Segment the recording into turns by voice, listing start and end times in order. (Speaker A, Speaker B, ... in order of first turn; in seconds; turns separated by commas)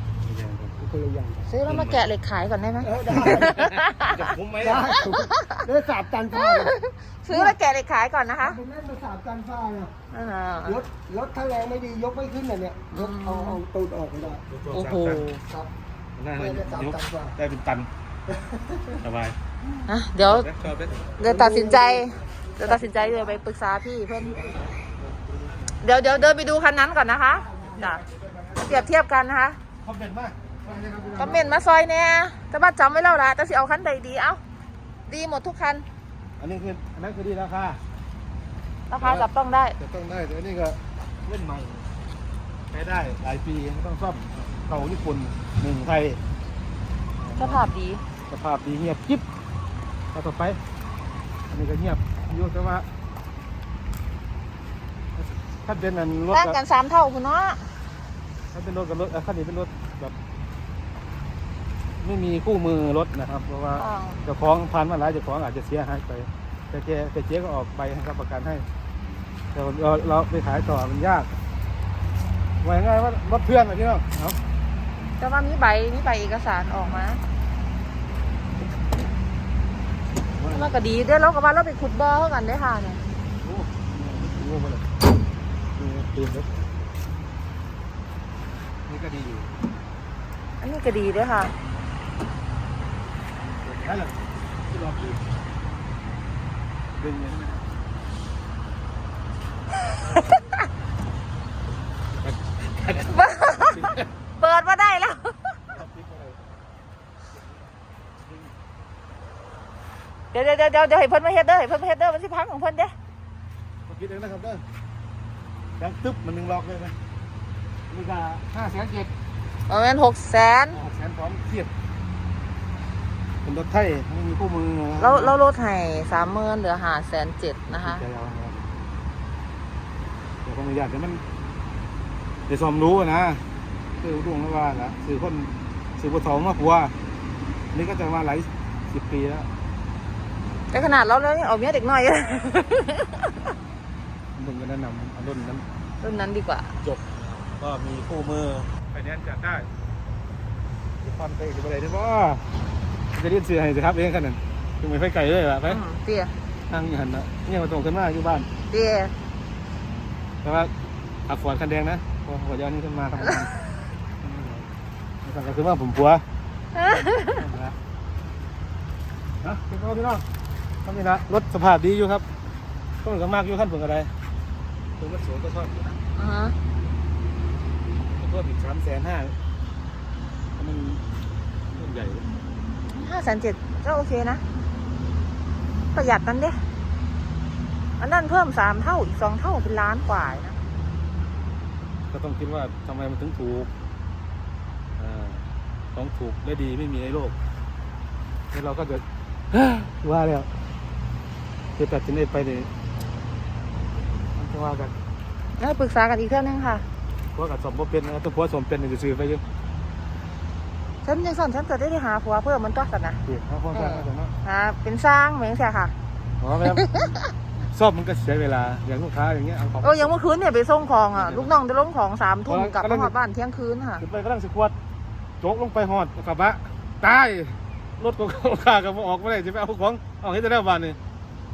Speaker A: 0.2-0.7, Speaker B: 0.8-1.5, Speaker C: 1.5-4.1, Speaker A: 1.6-2.1, Speaker B: 2.8-3.5, Speaker A: 3.1-5.0, Speaker B: 4.6-6.7, Speaker C: 5.0-5.6, Speaker C: 6.4-8.6, Speaker B: 7.3-7.6, Speaker B: 8.4-9.9, Speaker C: 10.1-10.8, Speaker B: 10.7-14.4, Speaker C: 12.9-13.6, Speaker A: 14.3-15.3, Speaker C: 14.7-15.4, Speaker A: 16.2-17.9, Speaker B: 16.4-17.4, Speaker B: 18.3-19.0, Speaker A: 19.0-19.4, Speaker C: 19.9-20.5, Speaker A: 20.2-21.2, Speaker C: 21.2-24.5, Speaker B: 21.2-23.2, Speaker A: 24.2-25.7, Speaker C: 25.8-28.0, Speaker A: 27.8-28.9, Speaker C: 28.6-29.6, Speaker A: 29.8-31.6, Speaker C: 31.2-34.4, Speaker C: 35.1-35.9, Speaker A: 36.4-37.8, Speaker C: 38.9-39.8, Speaker A: 39.0-39.3, Speaker A: 39.8-41.9, Speaker A: 42.7-46.2, Speaker A: 47.2-47.6, Speaker C: 47.4-48.0, Speaker A: 48.3-49.2, Speaker A: 50.1-50.6, Speaker A: 51.5-52.9, Speaker A: 55.2-56.6, Speaker C: 56.3-57.7, Speaker A: 58.5-60.1, Speaker A: 62.0-68.7, Speaker C: 63.8-64.2, Speaker A: 69.5-71.3, Speaker A: 72.6-74.4, Speaker C: 75.2-77.2, Speaker A: 80.3-80.8, Speaker C: 80.5-83.0, Speaker A: 83.4-84.8, Speaker A: 85.8-86.5, Speaker A: 88.9-89.5, Speaker C: 90.6-91.5, Speaker A: 93.6-95.2, Speaker A: 97.0-97.6, Speaker A: 102.2-104.0, Speaker C: 103.1-105.4, Speaker A: 105.7-106.5, Speaker C: 110.3-113.0, Speaker A: 113.9-114.6, Speaker A: 115.8-117.0, Speaker A: 117.9-119.1, Speaker C: 119.7-120.8, Speaker A: 120.7-121.7, Speaker A: 123.4-125.4, Speaker C: 125.0-128.0, Speaker A: 127.7-128.7, Speaker A: 130.4-131.2, Speaker A: 132.5-133.4, Speaker A: 134.0-136.9, Speaker A: 137.7-139.5, Speaker C: 140.7-143.5, Speaker A: 144.3-145.7, Speaker C: 146.0-146.8, Speaker A: 146.8-149.7, Speaker A: 151.0-152.4, Speaker A: 153.1-155.8, Speaker C: 155.7-156.3, Speaker A: 156.7-158.5, Speaker C: 158.7-159.1, Speaker A: 160.4-160.7, Speaker A: 161.3-163.5, Speaker A: 164.2-164.7, Speaker A: 165.2-166.2, Speaker C: 166.8-167.4, Speaker A: 167.4-167.8, Speaker A: 169.4-170.2, Speaker A: 170.8-172.3, Speaker A: 173.0-174.1, Speaker A: 175.0-176.0, Speaker C: 176.2-176.6, Speaker A: 178.1-179.4, Speaker A: 180.6-181.0, Speaker A: 181.7-182.3, Speaker C: 182.9-184.4, Speaker C: 185.9-186.6, Speaker C: 188.0-190.6, Speaker A: 192.1-193.7, Speaker A: 195.0-197.3, Speaker A: 198.5-200.5, Speaker A: 201.8-202.7, Speaker A: 204.3-204.9, Speaker C: 205.6-206.8, Speaker A: 207.3-209.4, Speaker C: 211.0-213.2, Speaker A: 213.2-214.3, Speaker C: 213.7-215.9, Speaker A: 216.4-216.9, Speaker C: 216.8-217.3, Speaker A: 217.6-220.1, Speaker C: 219.8-224.0, Speaker A: 221.1-221.6, Speaker A: 222.5-223.1, Speaker A: 224.0-224.8, Speaker A: 225.4-231.0